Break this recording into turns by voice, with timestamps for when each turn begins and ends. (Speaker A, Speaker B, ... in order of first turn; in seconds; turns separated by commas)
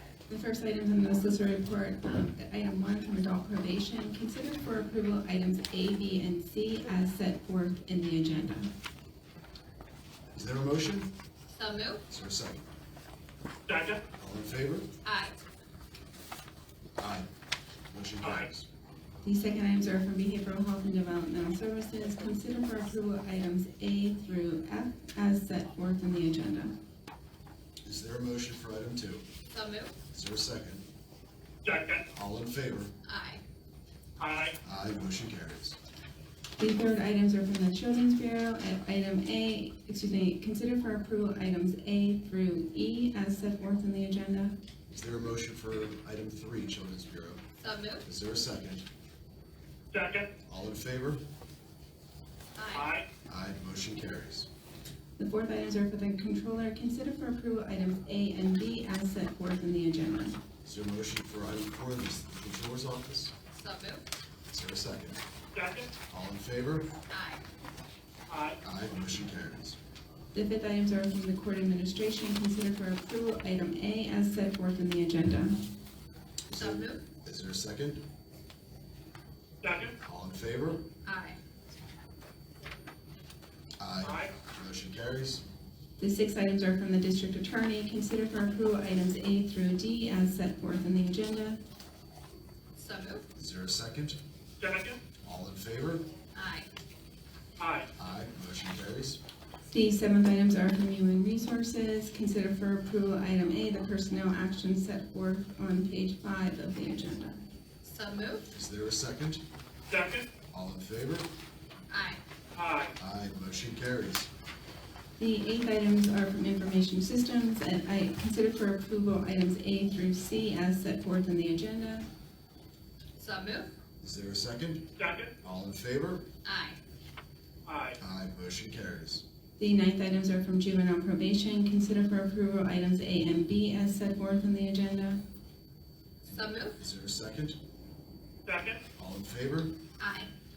Speaker A: 0.3-8.7, Speaker B: 10.3-11.1, Speaker C: 11.5-12.0, Speaker B: 12.1-12.7, Speaker D: 13.7-14.0, Speaker B: 14.2-14.9, Speaker C: 15.0-15.4, Speaker B: 17.0-17.3, Speaker B: 17.9-18.7, Speaker A: 19.2-26.7, Speaker B: 27.8-29.2, Speaker C: 29.5-29.9, Speaker B: 30.1-30.8, Speaker D: 31.6-32.0, Speaker B: 32.1-32.9, Speaker C: 33.0-33.4, Speaker D: 34.2-34.5, Speaker B: 34.6-35.8, Speaker A: 36.6-44.5, Speaker B: 44.9-47.4, Speaker C: 47.6-48.0, Speaker B: 48.0-48.9, Speaker D: 49.9-50.3, Speaker B: 50.4-51.2, Speaker C: 52.5-52.9, Speaker D: 52.7-53.0, Speaker B: 53.3-54.5, Speaker A: 55.2-60.4, Speaker B: 60.6-63.3, Speaker C: 63.5-64.0, Speaker B: 64.5-65.2, Speaker D: 65.5-65.9, Speaker B: 66.1-66.9, Speaker C: 67.1-67.4, Speaker D: 68.3-68.6, Speaker B: 68.6-69.8, Speaker A: 70.3-75.6, Speaker B: 76.5-78.0, Speaker C: 76.5-77.0, Speaker D: 79.6-80.0, Speaker B: 80.0-80.8, Speaker C: 81.0-81.4, Speaker B: 83.8-85.4, Speaker D: 84.0-84.3, Speaker A: 86.0-91.6, Speaker C: 92.8-93.2, Speaker B: 93.3-94.2, Speaker D: 94.6-95.0, Speaker B: 95.2-96.0, Speaker C: 96.3-96.7, Speaker D: 97.6-97.9, Speaker B: 98.0-99.2, Speaker A: 99.7-107.3, Speaker C: 107.8-108.5, Speaker B: 108.5-109.4, Speaker D: 109.9-110.2, Speaker B: 110.5-111.3, Speaker C: 111.9-112.2, Speaker D: 112.5-112.9, Speaker B: 113.0-114.3, Speaker A: 115.2-122.0, Speaker C: 123.2-123.7, Speaker B: 124.0-124.9, Speaker D: 125.0-125.3, Speaker B: 125.4-126.2, Speaker C: 126.4-126.8, Speaker D: 127.7-128.0, Speaker B: 128.0-129.2, Speaker A: 129.6-135.2, Speaker C: 136.2-136.8, Speaker B: 136.8-137.6, Speaker D: 138.4-138.8, Speaker B: 138.9-139.8, Speaker C: 140.0-140.3